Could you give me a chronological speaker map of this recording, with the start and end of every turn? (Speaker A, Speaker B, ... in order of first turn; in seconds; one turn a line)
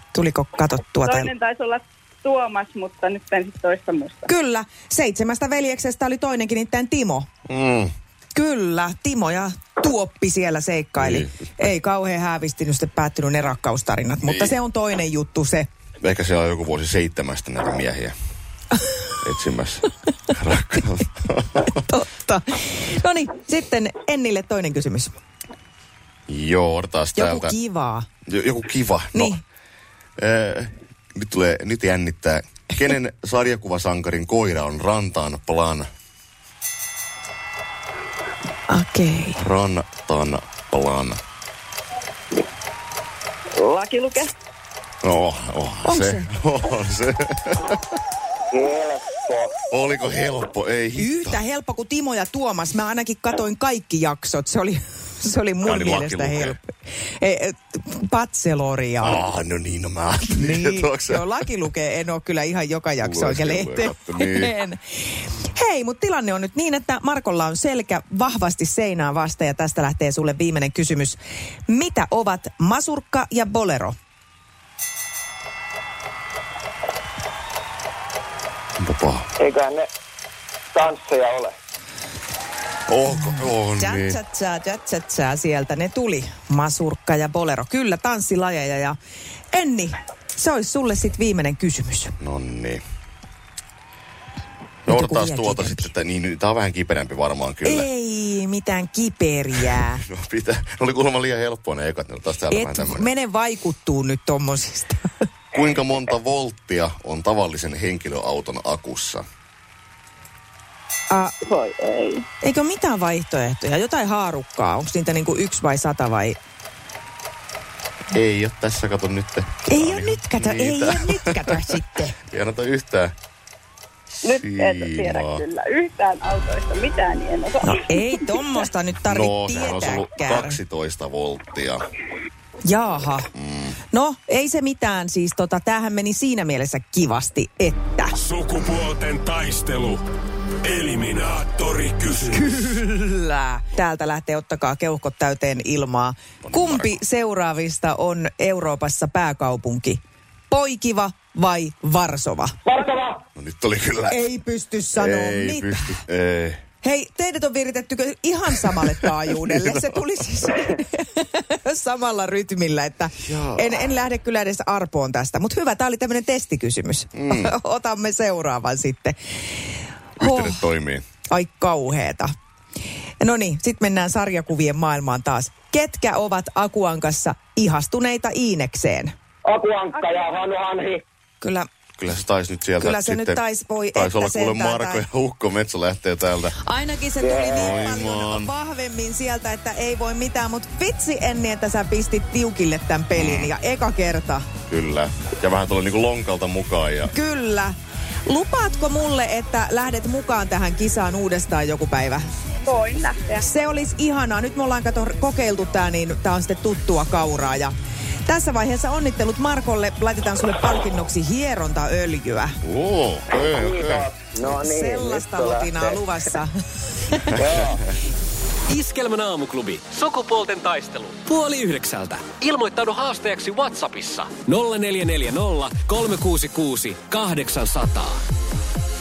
Speaker A: 0.1-1.3
Speaker B: 1.0-4.3
Speaker A: 4.2-7.3
Speaker C: 7.5-7.9
Speaker A: 8.3-15.7
Speaker C: 11.0-11.3
Speaker C: 14.2-14.5
Speaker C: 16.0-18.1
Speaker C: 19.2-21.7
Speaker A: 21.7-25.1
Speaker C: 26.3-27.5
Speaker A: 27.1-28.1
Speaker C: 28.3-29.4
Speaker A: 29.1-29.4
Speaker C: 30.2-35.9
Speaker A: 38.7-39.4
Speaker C: 39.4-41.2
Speaker B: 43.5-44.3
Speaker C: 45.0-47.8
Speaker A: 45.9-46.3
Speaker D: 48.5-49.4
Speaker C: 49.7-51.4
Speaker A: 51.0-56.6
Speaker C: 55.6-56.6
Speaker A: 57.2-59.2
Speaker C: 59.0-61.4
Speaker A: 60.3-64.8
Speaker C: 63.0-64.5
Speaker A: 65.4-73.9
Speaker C: 78.8-79.3
Speaker D: 79.4-79.8
Speaker D: 80.7-81.5
Speaker C: 82.9-84.2
Speaker A: 83.7-89.0
Speaker A: 89.5-92.2
Speaker C: 92.2-92.8
Speaker C: 94.8-97.9
Speaker A: 94.9-95.9
Speaker A: 97.6-100.0
Speaker C: 99.8-103.1
Speaker A: 102.5-105.2
Speaker C: 105.5-109.2
Speaker A: 111.1-111.3
Speaker B: 111.4-112.2
Speaker A: 112.4-116.4
Speaker C: 118.1-123.1
Speaker A: 119.7-122.2
Speaker C: 124.2-125.4
Speaker B: 124.2-128.1
Speaker A: 127.6-130.6
Speaker C: 129.0-131.8
Speaker A: 132.6-133.3
Speaker C: 133.3-133.8
Speaker A: 133.9-138.2
Speaker E: 138.1-140.0
Speaker E: 140.6-142.6
Speaker A: 142.3-152.5
Speaker C: 146.4-146.9
Speaker D: 152.7-153.2
Speaker C: 153.3-154.2
Speaker A: 154.1-155.9
Speaker C: 154.9-156.6
Speaker A: 156.8-169.2
Speaker C: 158.9-160.0
Speaker C: 163.2-163.7
Speaker C: 167.2-167.5
Speaker C: 170.2-171.0
Speaker A: 170.2-170.6
Speaker A: 171.3-172.3
Speaker A: 173.2-179.1
Speaker D: 179.4-181.0
Speaker B: 179.9-180.4
Speaker A: 181.4-181.7
Speaker C: 182.0-183.4
Speaker A: 182.8-185.0
Speaker C: 183.9-186.6
Speaker A: 186.6-194.4
Speaker D: 187.2-187.9
Speaker C: 187.5-188.5
Speaker C: 193.1-193.5
Speaker C: 194.7-197.1
Speaker A: 197.1-197.7
Speaker A: 198.3-202.2
Speaker B: 202.6-203.5
Speaker A: 203.4-207.7
Speaker A: 208.2-212.6
Speaker C: 212.6-214.1
Speaker D: 213.7-216.0
Speaker A: 214.5-216.5
Speaker A: 217.1-217.4
Speaker D: 217.4-217.8
Speaker F: 218.7-228.2